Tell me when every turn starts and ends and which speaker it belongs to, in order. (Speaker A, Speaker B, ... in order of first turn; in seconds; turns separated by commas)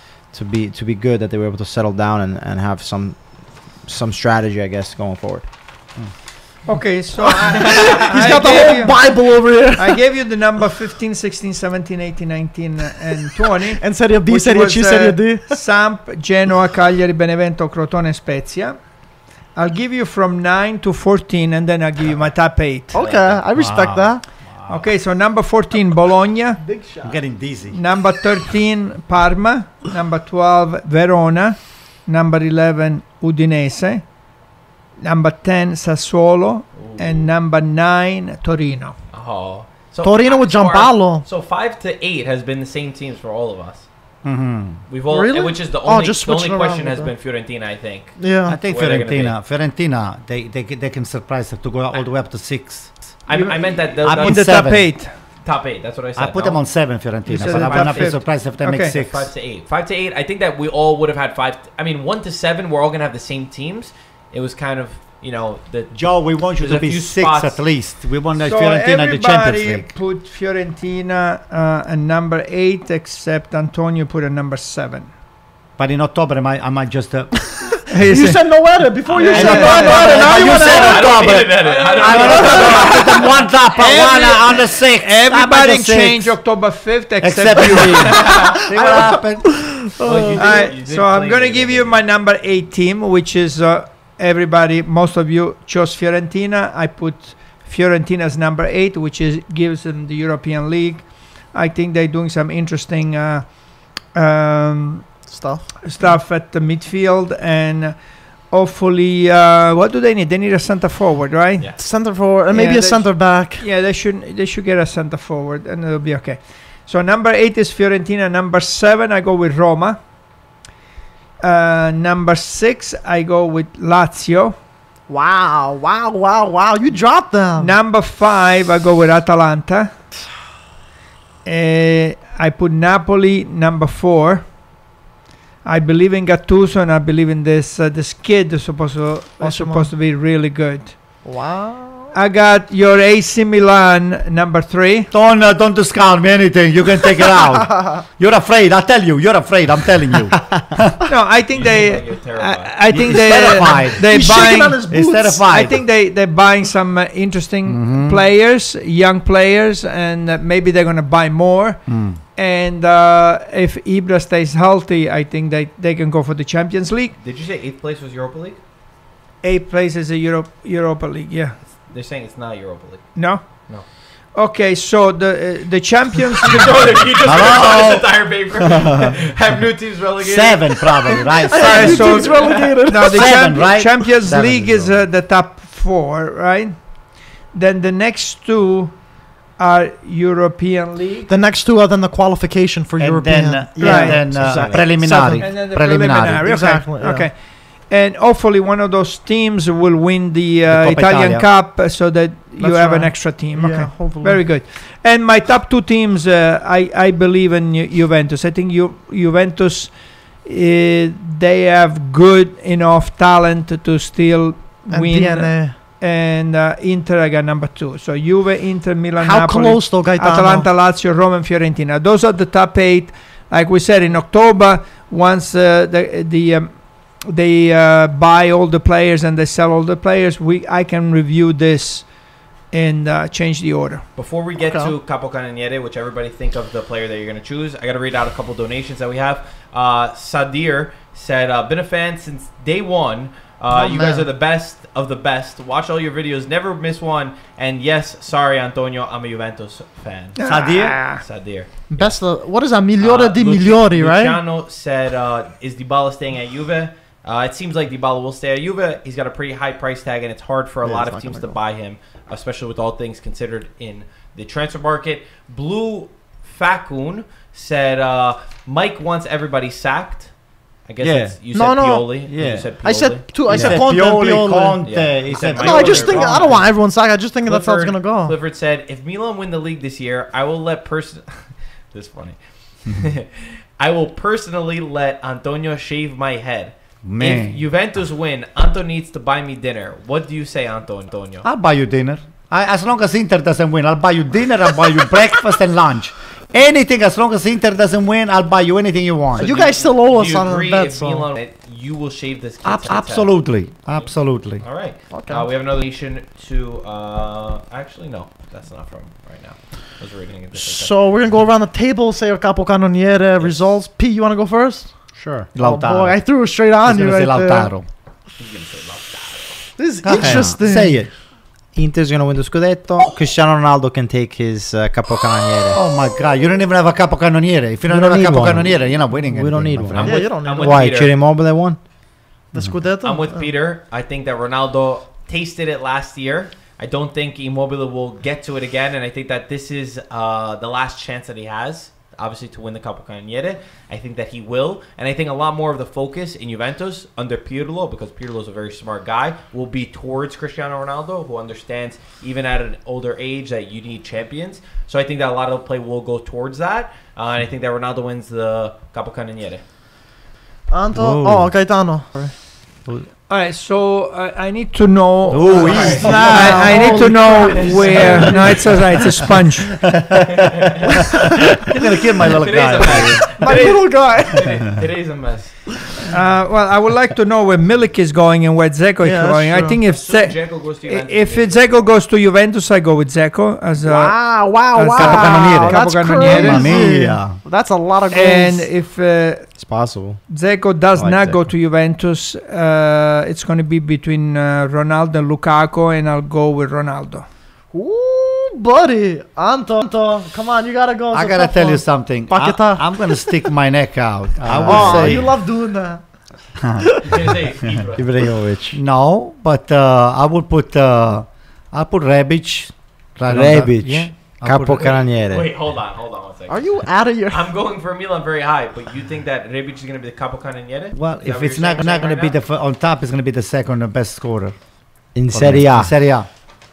Speaker A: 0.3-3.2, Speaker A: 3.9-5.5, Speaker B: 6.7-18.8, Speaker C: 7.3-10.0, Speaker D: 7.5-8.0, Speaker C: 13.7-15.6, Speaker B: 19.6-22.9, Speaker C: 22.9-24.2, Speaker D: 22.9-23.4, Speaker E: 23.5-24.9, Speaker B: 24.7-26.6, Speaker C: 26.6-27.1, Speaker E: 27.0-27.8, Speaker B: 27.7-34.0, Speaker B: 35.0-39.0, Speaker D: 36.7-37.3, Speaker D: 39.1-43.9, Speaker C: 40.0-41.3, Speaker E: 44.2-44.8, Speaker D: 44.9-49.4, Speaker C: 45.1-47.1, Speaker C: 48.2-48.6, Speaker E: 48.5-52.9, Speaker D: 53.3-54.6, Speaker B: 53.3-55.1, Speaker E: 54.0-54.9, Speaker D: 55.4-56.6, Speaker E: 56.2-59.3, Speaker B: 57.3-59.0, Speaker D: 57.4-58.2, Speaker D: 58.9-67.6, Speaker E: 65.9-69.8, Speaker B: 68.4-75.1, Speaker E: 75.8-77.4, Speaker B: 77.9-78.5, Speaker C: 78.0-83.4, Speaker B: 79.1-80.0, Speaker E: 79.3-86.4, Speaker D: 79.6-83.3, Speaker B: 83.8-88.3, Speaker E: 87.2-89.5, Speaker D: 88.2-88.6, Speaker C: 88.3-90.7, Speaker D: 90.0-92.0, Speaker B: 90.4-103.5, Speaker B: 104.1-105.1, Speaker C: 105.3-105.7, Speaker B: 105.8-108.0, Speaker B: 108.5-111.7, Speaker C: 111.8-113.7, Speaker B: 112.5-120.0, Speaker B: 121.4-124.5, Speaker C: 125.1-127.7, Speaker B: 127.6-129.9, Speaker B: 131.4-134.5, Speaker B: 135.7-141.0, Speaker C: 139.4-139.9, Speaker C: 141.2-142.1, Speaker B: 142.1-145.1, Speaker E: 145.1-151.0, Speaker C: 147.6-148.0, Speaker B: 151.1-167.2, Speaker D: 151.5-152.8, Speaker E: 152.9-154.4, Speaker C: 153.4-155.5, Speaker E: 154.9-155.8, Speaker E: 157.7-158.2, Speaker E: 161.9-162.2, Speaker D: 167.2-168.6, Speaker B: 169.4-171.6, Speaker D: 171.7-173.8, Speaker B: 173.2-173.4, Speaker B: 174.3-176.9, Speaker D: 176.4-181.3, Speaker E: 177.2-179.2, Speaker E: 180.2-182.3, Speaker C: 181.4-183.5, Speaker B: 181.6-186.8, Speaker D: 181.9-182.8, Speaker E: 183.0-185.0, Speaker B: 187.5-189.0, Speaker B: 189.6-191.3, Speaker C: 191.3-195.6, Speaker E: 193.0-196.5, Speaker B: 193.8-194.2, Speaker A: 194.4-194.8, Speaker B: 195.4-232.1, Speaker C: 196.4-197.3, Speaker E: 200.7-201.5, Speaker C: 202.6-204.5, Speaker C: 214.9-215.8, Speaker C: 219.2-220.7, Speaker B: 232.7-234.1, Speaker D: 234.2-250.4, Speaker C: 234.6-234.9, Speaker C: 243.7-244.3, Speaker B: 250.4-251.2, Speaker E: 250.4-251.0, Speaker D: 250.9-252.2, Speaker C: 251.9-254.4, Speaker D: 253.0-270.3, Speaker C: 260.9-261.6, Speaker D: 270.9-273.2, Speaker E: 271.0-271.4, Speaker C: 271.5-272.2, Speaker E: 272.3-272.7, Speaker C: 272.8-274.9, Speaker E: 273.5-276.6, Speaker A: 273.5-273.8, Speaker D: 274.8-276.7, Speaker C: 275.5-278.4, Speaker D: 277.5-291.5, Speaker E: 287.0-287.6, Speaker E: 291.4-299.5, Speaker D: 299.4-303.4, Speaker C: 299.4-301.3, Speaker E: 302.6-304.6, Speaker D: 303.9-310.9, Speaker C: 305.1-305.5, Speaker C: 310.6-315.0, Speaker D: 313.4-313.8, Speaker A: 315.2-315.5, Speaker E: 315.6-316.2, Speaker C: 315.6-317.7, Speaker E: 316.8-317.9, Speaker D: 318.4-319.6, Speaker C: 319.8-321.0, Speaker E: 320.0-321.1, Speaker A: 320.2-320.6, Speaker A: 321.8-325.8, Speaker E: 325.7-330.2, Speaker A: 327.9-331.8, Speaker D: 330.0-331.1, Speaker C: 330.0-330.9, Speaker C: 332.5-333.5, Speaker D: 333.0-359.6, Speaker C: 360.7-362.3, Speaker E: 360.9-361.5, Speaker B: 363.3-369.7, Speaker E: 365.3-366.6, Speaker D: 365.4-368.6, Speaker C: 365.4-368.6, Speaker E: 369.8-373.3, Speaker D: 370.2-371.3, Speaker D: 372.2-375.6, Speaker C: 373.4-374.6, Speaker B: 376.1-386.9, Speaker C: 379.0-379.8, Speaker D: 379.9-381.9, Speaker C: 383.8-388.7, Speaker E: 385.0-387.4, Speaker B: 388.1-389.5, Speaker A: 389.6-390.2, Speaker B: 390.3-397.2, Speaker A: 391.0-391.4, Speaker C: 397.7-402.9, Speaker E: 401.1-405.3, Speaker A: 404.5-405.3, Speaker C: 404.6-406.0, Speaker E: 406.6-407.0, Speaker C: 406.8-407.1, Speaker D: 407.0-408.1, Speaker A: 407.9-408.8, Speaker E: 408.7-415.0, Speaker A: 413.3-415.5, Speaker D: 414.8-422.4, Speaker C: 416.5-417.5, Speaker E: 420.9-424.6, Speaker A: 425.1-425.9, Speaker E: 425.3-426.3